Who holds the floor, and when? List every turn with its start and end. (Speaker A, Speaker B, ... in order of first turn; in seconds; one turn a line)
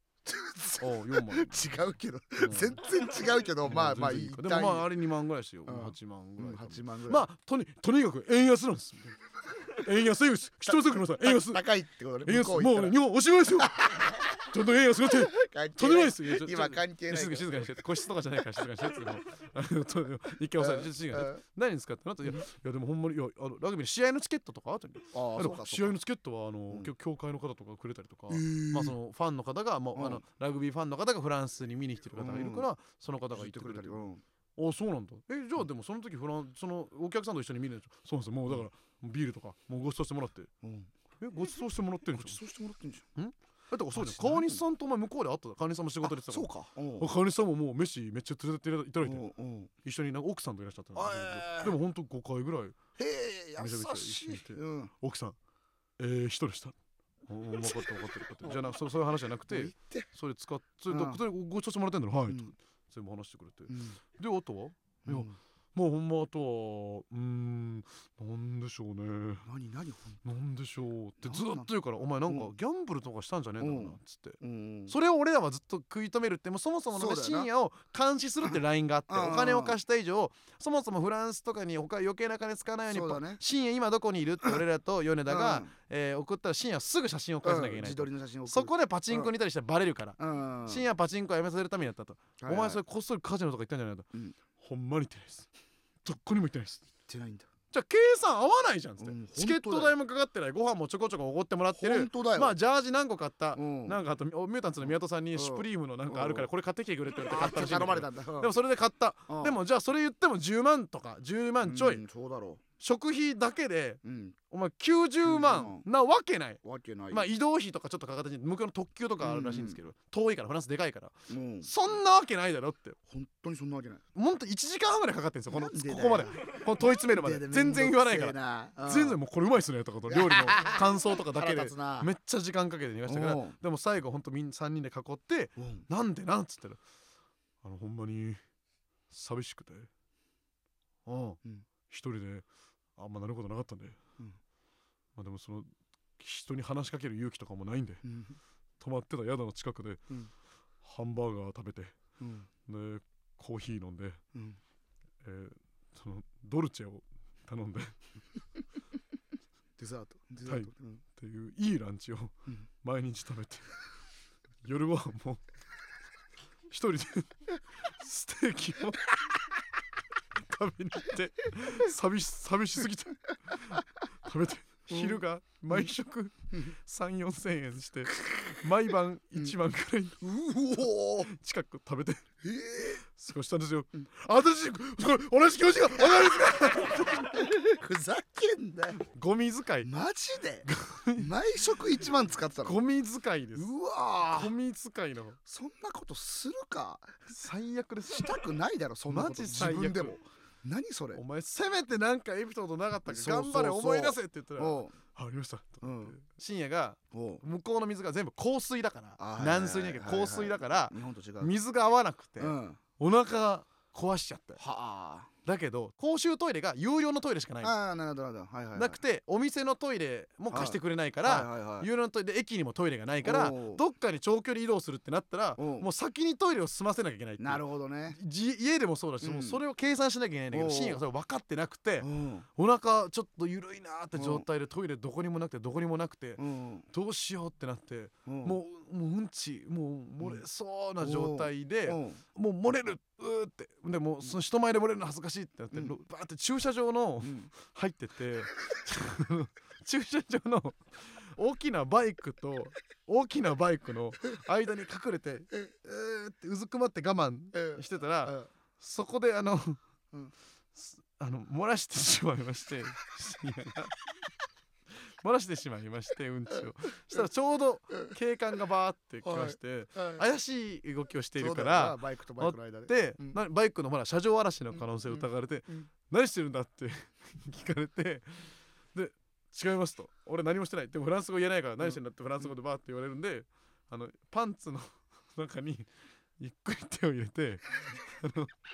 Speaker A: 0.2-4.9
Speaker B: 0.8-1.6
Speaker B: 2.4-2.8
Speaker B: 3.6-11.6
Speaker A: 5.7-7.3
Speaker A: 10.7-13.0
Speaker B: 12.2-40.5
Speaker A: 13.6-14.3
Speaker A: 15.0-17.8
Speaker A: 20.6-21.4
Speaker A: 25.1-26.0
Speaker A: 28.3-28.9
Speaker A: 29.9-30.2
Speaker A: 32.1-32.7
Speaker A: 33.3-34.2
Speaker A: 40.6-40.9
Speaker B: 41.2-42.4
Speaker A: 42.1-43.1
Speaker B: 43.1-49.2
Speaker A: 43.9-44.6
Speaker A: 46.0-47.1
Speaker A: 49.0-49.7
Speaker B: 49.8-52.8
Speaker A: 50.9-51.8
Speaker A: 53.0-54.9
Speaker B: 53.6-55.4
Speaker B: 56.0-56.7
Speaker B: 57.3-69.5
Speaker A: 57.6-58.7
Speaker A: 59.5-60.1
Speaker A: 60.9-61.2
Speaker A: 63.7-64.0
Speaker A: 65.0-65.3
Speaker A: 69.4-70.2
Speaker B: 70.2-95.5
Speaker A: 71.2-71.7
Speaker A: 73.6-74.9
Speaker A: 76.9-77.5
Speaker A: 79.1-79.8
Speaker A: 82.9-83.4
Speaker A: 85.3-85.7
Speaker A: 87.4-89.3
Speaker A: 90.2-90.8
Speaker A: 92.4-92.8
Speaker B: 96.0-96.9
Speaker A: 97.1-97.5
Speaker B: 97.7-112.0
Speaker A: 99.0-99.9
Speaker A: 101.7-102.5
Speaker A: 103.5-104.0
Speaker A: 104.8-106.5
Speaker A: 107.2-108.5
Speaker A: 109.3-109.6
Speaker A: 111.6-112.6
Speaker B: 112.8-123.0
Speaker A: 114.0-114.3
Speaker A: 115.2-115.8
Speaker A: 116.6-117.3
Speaker A: 119.2-119.8
Speaker A: 121.3-121.7
Speaker A: 123.1-124.0
Speaker B: 124.1-136.8
Speaker A: 125.5-129.2
Speaker A: 130.1-132.1
Speaker A: 133.1-133.6
Speaker A: 135.6-135.8
Speaker B: 137.6-138.4
Speaker B: 139.1-139.9
Speaker B: 141.1-144.0
Speaker B: 145.2-148.1
Speaker A: 148.0-148.4
Speaker B: 148.8-150.0
Speaker B: 150.8-151.9
Speaker A: 152.2-152.5
Speaker B: 152.7-154.2
Speaker A: 154.3-154.6
Speaker B: 155.2-158.0
Speaker A: 159.8-161.0
Speaker B: 160.4-163.7
Speaker B: 164.6-165.4
Speaker B: 166.7-167.4
Speaker B: 167.9-169.2
Speaker B: 170.4-180.2
Speaker A: 174.9-175.2
Speaker A: 178.1-178.5
Speaker A: 180.2-181.3
Speaker B: 181.2-182.2
Speaker A: 182.4-183.0
Speaker B: 183.1-187.5
Speaker A: 186.0-189.0
Speaker B: 189.0-189.9
Speaker A: 189.8-192.8
Speaker B: 190.7-191.3
Speaker B: 192.6-193.7
Speaker A: 193.5-194.5
Speaker B: 194.3-195.4
Speaker A: 195.4-197.1
Speaker B: 197.3-198.4
Speaker A: 198.1-201.2
Speaker B: 199.1-200.2
Speaker B: 201.1-214.6
Speaker A: 203.1-204.9
Speaker A: 205.8-206.1
Speaker A: 207.1-207.4
Speaker A: 209.2-211.5
Speaker A: 212.4-212.8
Speaker A: 214.6-215.3
Speaker B: 215.4-217.7
Speaker A: 217.6-219.0
Speaker B: 218.7-259.8
Speaker A: 220.5-221.9
Speaker A: 223.2-223.8
Speaker A: 225.6-225.9
Speaker A: 227.4-228.2
Speaker A: 229.2-229.6
Speaker A: 230.5-231.0
Speaker A: 232.0-232.4
Speaker A: 234.1-234.4
Speaker A: 236.4-236.9
Speaker A: 238.2-238.6
Speaker A: 241.0-242.2
Speaker A: 247.2-247.5
Speaker A: 257.5-258.5
Speaker B: 260.7-264.0
Speaker B: 265.2-288.5
Speaker A: 269.2-270.2
Speaker A: 271.4-273.4
Speaker A: 274.7-275.9